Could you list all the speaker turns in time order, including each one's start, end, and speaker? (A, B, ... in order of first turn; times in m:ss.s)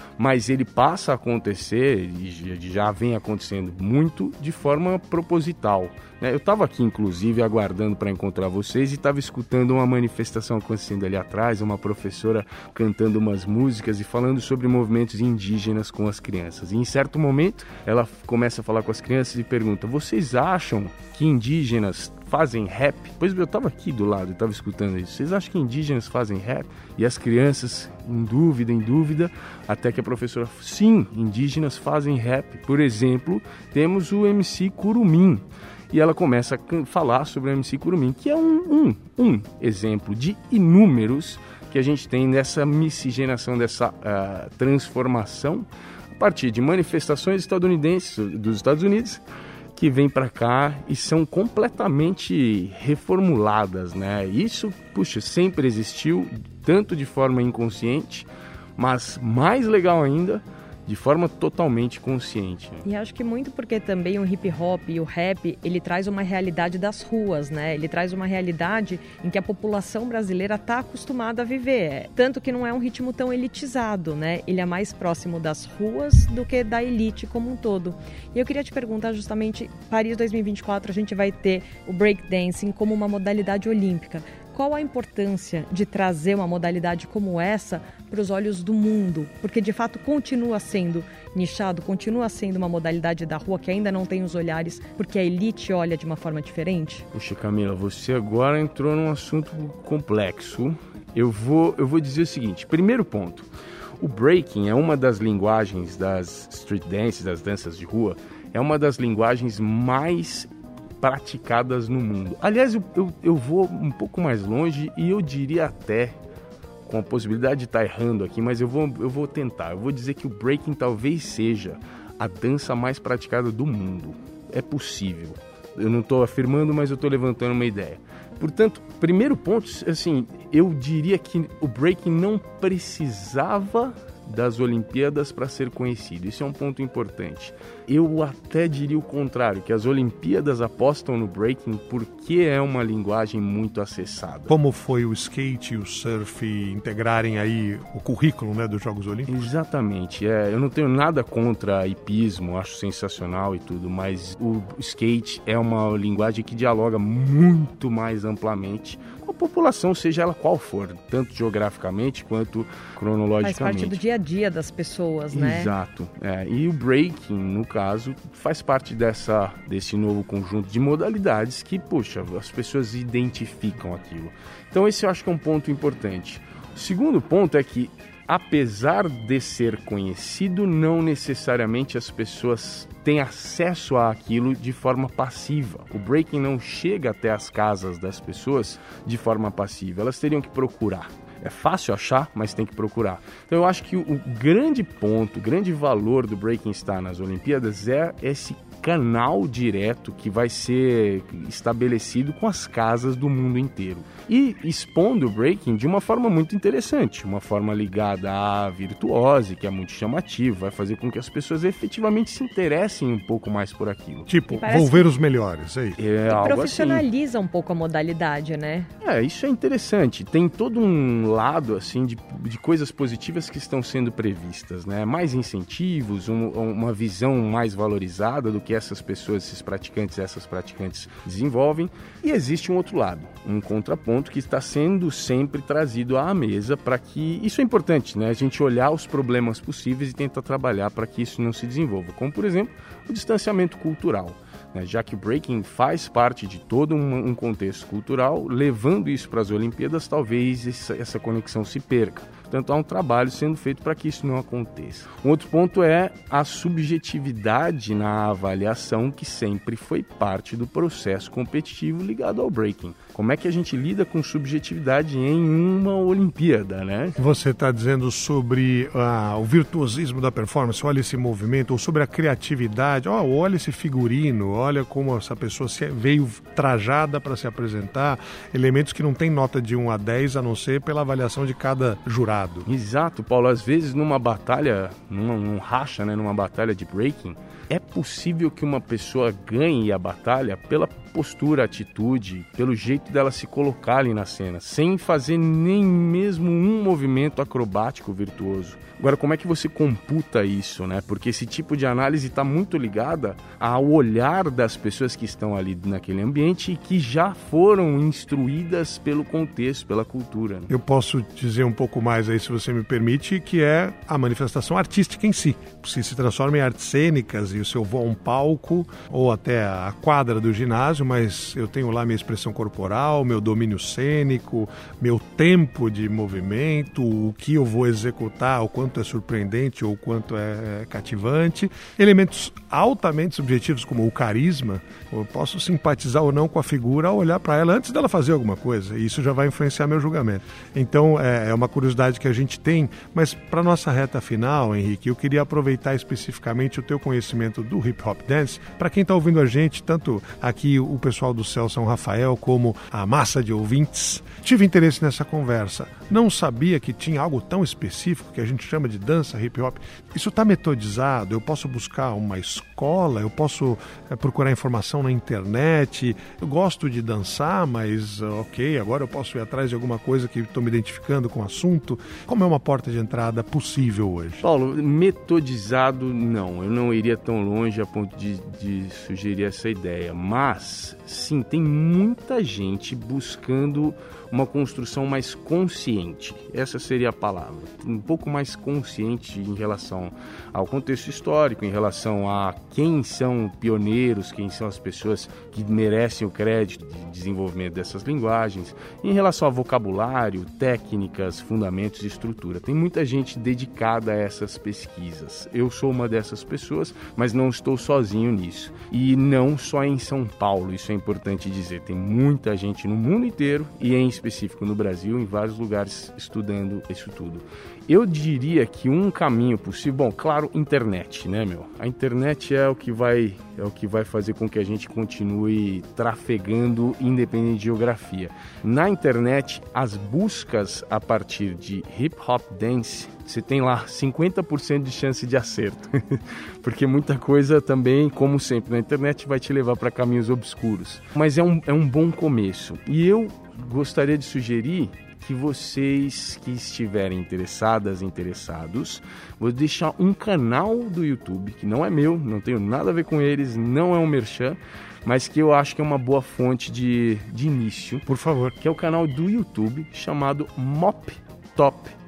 0:00.2-0:49.2 A
0:49.7-1:02.8 A
1:02.8-1:37.1 B
1:37.1-1:43.5 A
1:44.0-1:50.5 A
1:51.0-1:56.2 A
1:56.8-2:24.5 A
2:24.5-2:29.5 C
2:29.3-2:44.0 A
2:43.4-2:45.7 B
2:45.3-3:34.3 A
3:34.3-3:36.0 C
3:34.5-3:35.1 B
3:36.0-3:37.1 A
3:36.3-3:38.9 B
3:39.0-4:27.2 A
4:27.2-4:42.7 C
4:42.7-5:10.7 A
5:10.7-6:14.4 C
6:14.4-7:38.0 A
7:38.1-7:38.6 C
7:38.6-7:41.9 A